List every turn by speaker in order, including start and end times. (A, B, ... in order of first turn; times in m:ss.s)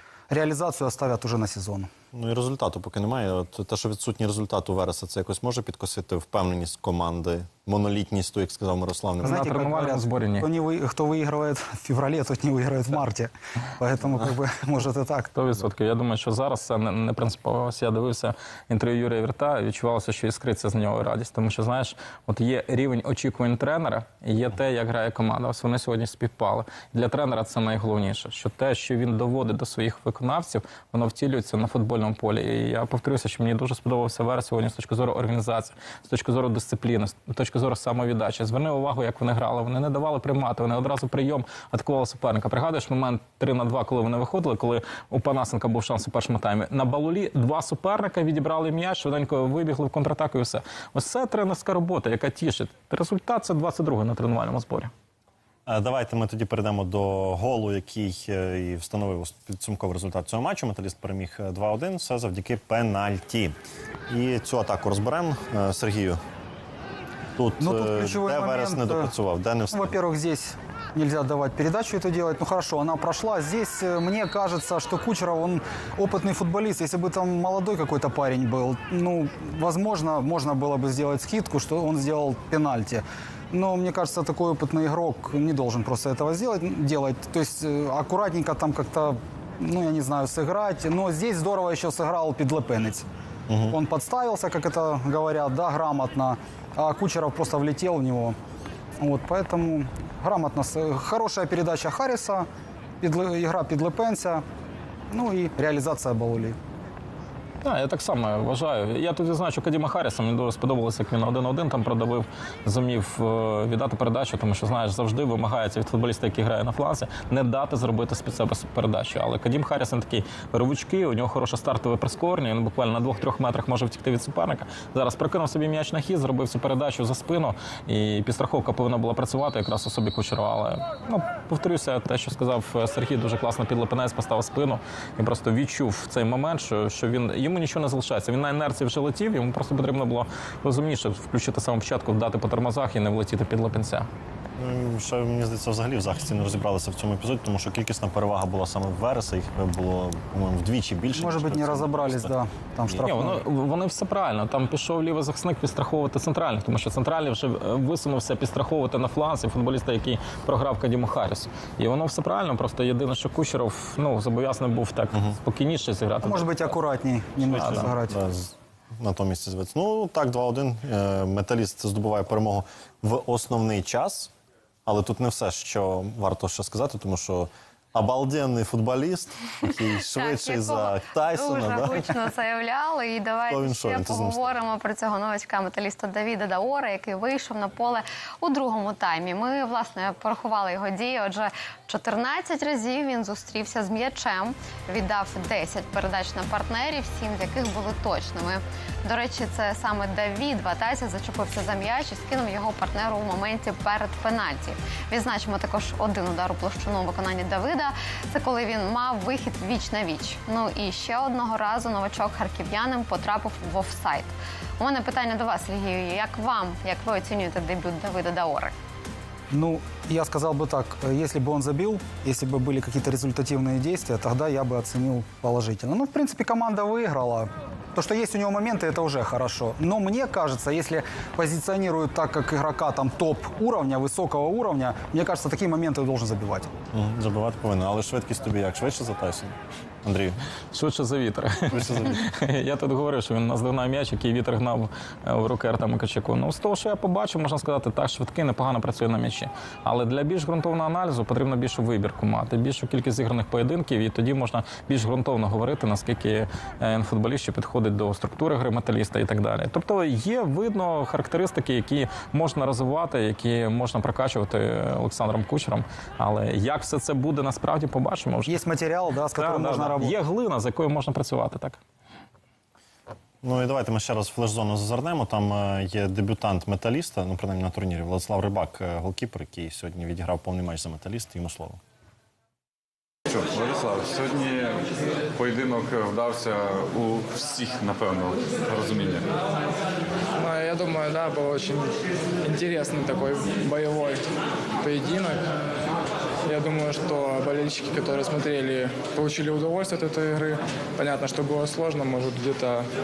0:00.3-0:01.9 A
0:02.1-0:09.5 B
0:09.2-0:15.3 A
0:09.2-0:10.5 C
0:15.3-0:54.9 C
0:55.7-1:03.6 B
1:04.1-1:06.2 B
1:07.4-1:10.0 B
1:07.6-1:09.1 A
1:09.7-1:33.1 A
1:33.5-1:33.8 B
1:33.7-1:38.4 A
1:39.0-1:42.5 A
1:43.0-1:44.4 A
1:45.1-1:46.6 A
1:47.6-2:24.1 C
2:24.6-2:32.4 B
2:31.1-2:33.4 A
2:33.0-2:46.8 C
2:46.2-2:48.2 A
2:47.4-2:47.9 C
2:47.5-2:54.3 B
2:54.9-3:02.1 B
3:00.2-3:38.7 D
3:03.5-3:04.6 B
3:39.5-3:56.7 A
3:56.9-4:00.4 B
4:00.7-4:28.6 C
4:01.7-4:02.2 B
4:28.5-4:30.2 A
4:29.4-4:31.8 C
4:33.4-4:41.8 B
4:43.3-4:49.3 E
4:50.4-4:54.2 F
4:54.8-4:55.5 F
4:56.5-5:02.9 F